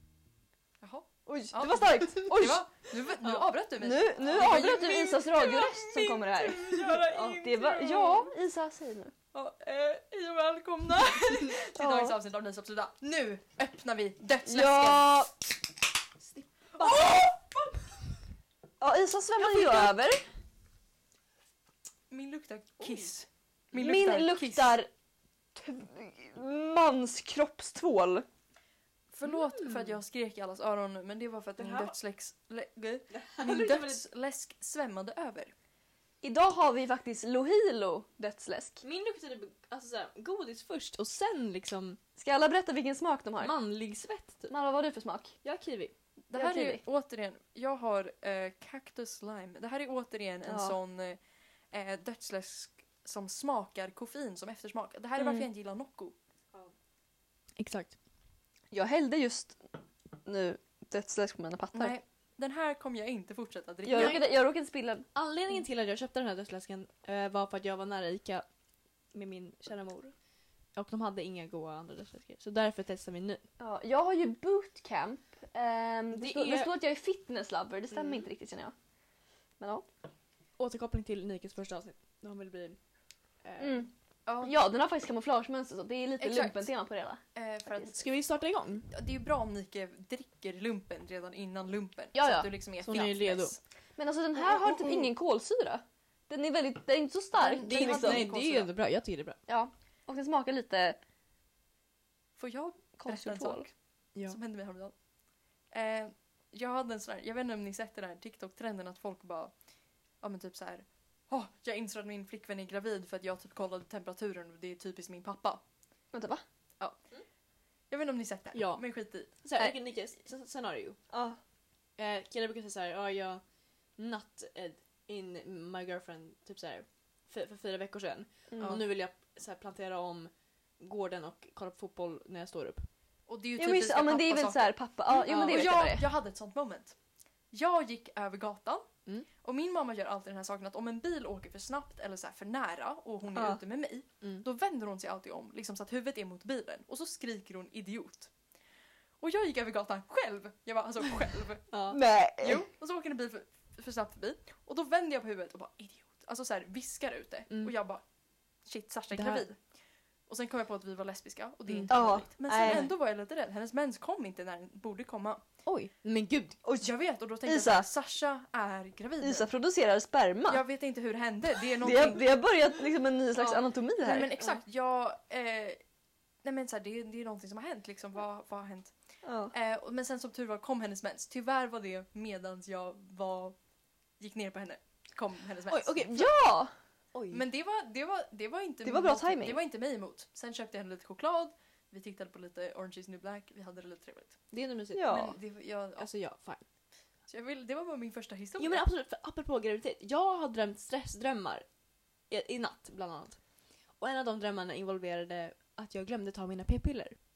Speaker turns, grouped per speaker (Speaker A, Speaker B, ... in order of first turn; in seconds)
Speaker A: 0.8-8.3, 9.3-15.2, 16.8-17.7, 19.4-19.9, 22.1-24.8, 29.1-35.5, 46.3-51.2, 51.7-56.1, 61.7-64.2, 84.3-84.5, 86.2-86.7, 87.3-88.0, 88.9-93.6, 94.4-95.1, 97.4-98.7, 102.4-103.7, 104.2-104.9, 105.7-109.5, 110.2-115.6, 117.9-119.3, 133.3-136.9, 137.5-138.9, 139.4-148.3, 149.2-151.7, 152.4-158.0, 158.7-159.6, 160.3-165.4, 166.8-169.5, 170.5-172.3, 173.3-175.8, 176.4-178.9, 179.5-183.6, 184.2-186.1, 187.3-194.4, 195.1-196.1, 197.3-198.8
Speaker B: 1.2-2.6, 3.8-9.1, 11.7-12.2, 14.4-15.3, 18.8-20.2, 23.7-24.9, 25.5-28.2, 36.2-38.8, 42.2-43.5, 44.5-45.3, 46.3-46.8, 50.5-50.8, 55.2-55.5, 58.7-59.6, 60.2-62.0, 63.8-65.1, 73.6-78.7, 79.6-79.8, 83.6-83.9, 84.4-87.2, 92.1-92.5, 94.0-98.3, 99.5-101.0, 103.0-103.7, 116.1-116.4, 121.1-121.4, 128.5-128.8, 133.6-136.1, 143.3-143.6, 151.9-152.6, 161.9-162.9, 166.6-166.9, 167.4-167.9, 169.2-170.6, 171.8-174.3, 179.2-179.5, 186.1-186.7, 188.8-189.6, 194.9-195.4
Speaker C: 3.2-3.5, 4.2-4.7, 6.9-7.5, 11.2-11.5, 16.2-17.2, 22.8-23.1, 29.2-29.9, 31.6-31.9, 33.1-34.0, 38.8-42.0, 43.4-44.5, 45.4-45.9, 57.6-57.9, 63.9-64.3, 65.1-68.4, 69.1-70.1, 70.8-73.4, 76.1-76.7, 77.9-78.3, 80.6-82.8, 83.4-83.8, 87.9-88.9, 92.8-93.5, 97.6-99.4, 118.5-121.0, 122.0-123.4, 124.0-132.8, 151.7-152.0, 159.1-159.5, 161.7-162.9, 165.7-166.6, 185.7-186.3, 187.1-187.4, 194.5-195.2, 196.0-196.6, 198.6-201.7, 202.3-203.4, 204.0-207.2